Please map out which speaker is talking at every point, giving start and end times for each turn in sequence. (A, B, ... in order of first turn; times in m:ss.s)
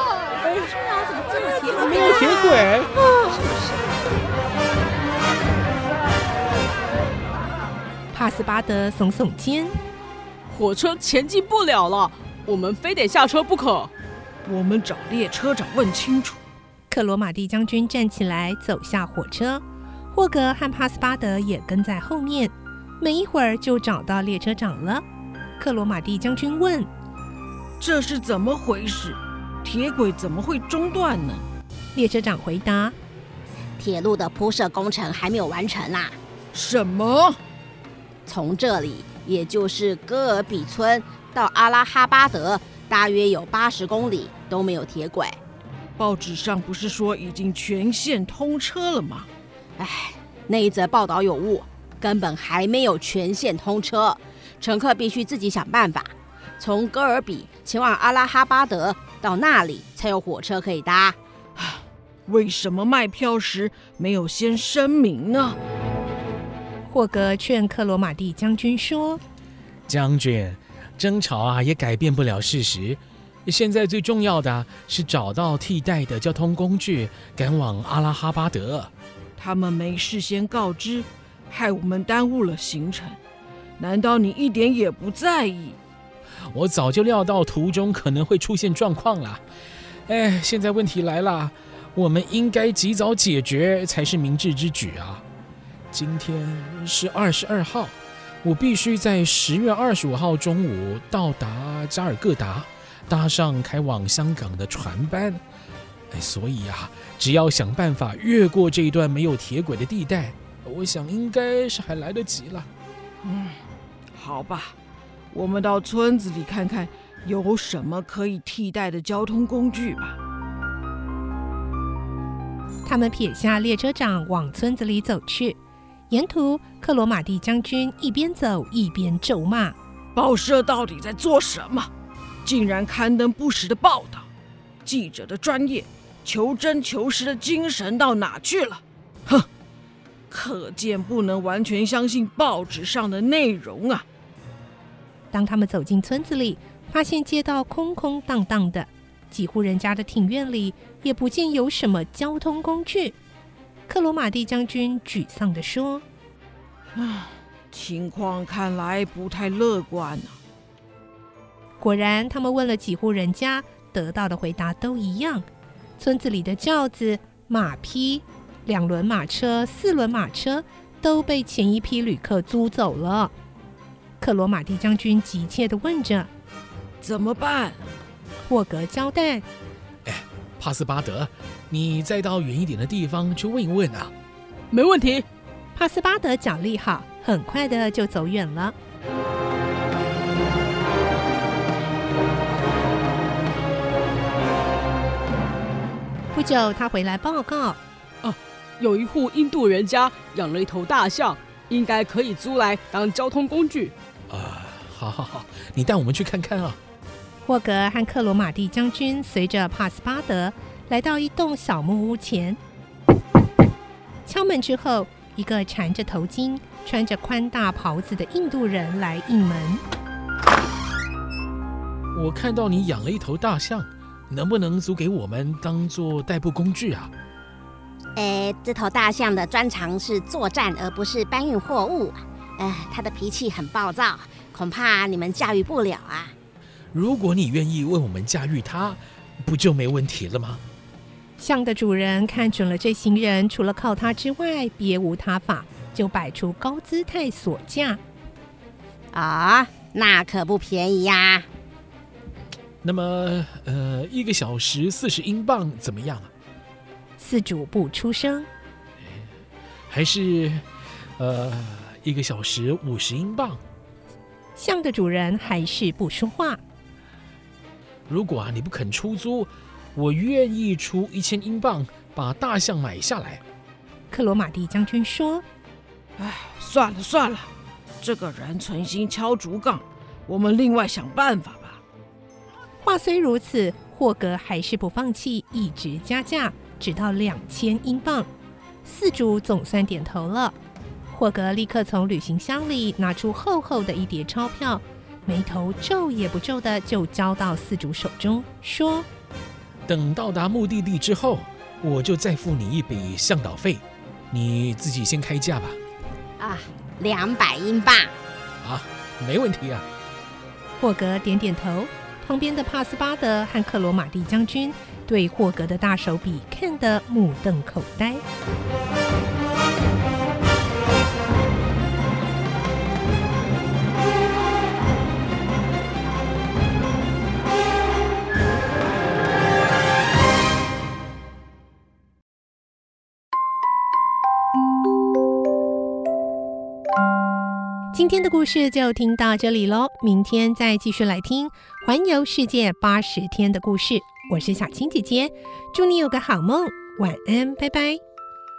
0:00.6-0:02.6 A
0:01.8-0:03.0 B
0:03.2-0:03.8 A
0:08.1-0:09.8 C
0:10.5-0:13.9 A
0:14.4-0:16.4 D
0:16.9-0:25.0 C
0:25.6-0:26.9 C
0:27.8-0:31.4 D
0:31.9-0:32.9 C
0:33.8-0:36.2 E
0:36.5-0:37.4 D
0:38.2-0:45.4 E
0:46.0-0:49.3 D
0:49.8-1:01.2 E
1:01.6-1:05.6 D
1:06.9-1:09.2 C
1:09.9-1:18.9 B
1:19.4-1:23.2 D
1:23.8-1:25.8 D
1:26.5-1:29.4 B
1:30.1-1:35.2 B
1:35.9-1:45.4 B
1:46.1-1:52.7 B
1:53.2-1:53.6 D
1:54.1-1:54.8 D
1:55.3-2:00.2 D
2:02.8-2:05.6 C
2:06.1-2:09.8 C
2:10.2-2:11.9 D
2:12.4-2:14.3 D
2:14.8-2:19.5 D
2:20.3-2:24.0 D
2:25.3-2:33.2 C
2:33.9-2:36.0 C
2:37.0-2:40.4 D
2:41.8-2:45.5 C
2:46.0-2:53.3 C
2:54.2-2:56.3 C
2:57.0-2:57.8 D
2:58.5-2:59.4 C
3:00.0-3:04.1 B
3:04.7-3:05.2 A
3:05.8-3:08.7 C
3:16.3-3:17.8 C
3:18.2-3:23.9 A
3:24.3-3:26.8 B
3:27.4-3:32.6 C
3:34.3-3:39.8 C
3:42.1-3:47.1 B
3:48.2-3:56.3 E
3:56.9-4:00.6 B
4:01.4-4:08.0 C
4:09.1-4:11.5 E
4:12.8-4:16.3 B
4:17.2-4:18.5 C
4:19.0-4:19.3 B
4:19.9-4:20.6 B
4:21.2-4:23.6 B
4:24.6-4:26.6 C
4:28.1-4:33.4 B
4:34.1-4:35.4 C
4:36.2-4:37.5 D
4:38.0-4:41.8 D
4:42.8-4:48.3 C
4:48.8-4:50.5 C
4:51.1-4:59.1 C
4:59.9-5:05.8 B
5:06.4-5:08.1 E
5:08.6-5:09.9 B
5:10.8-5:18.2 C
5:37.9-5:48.0 C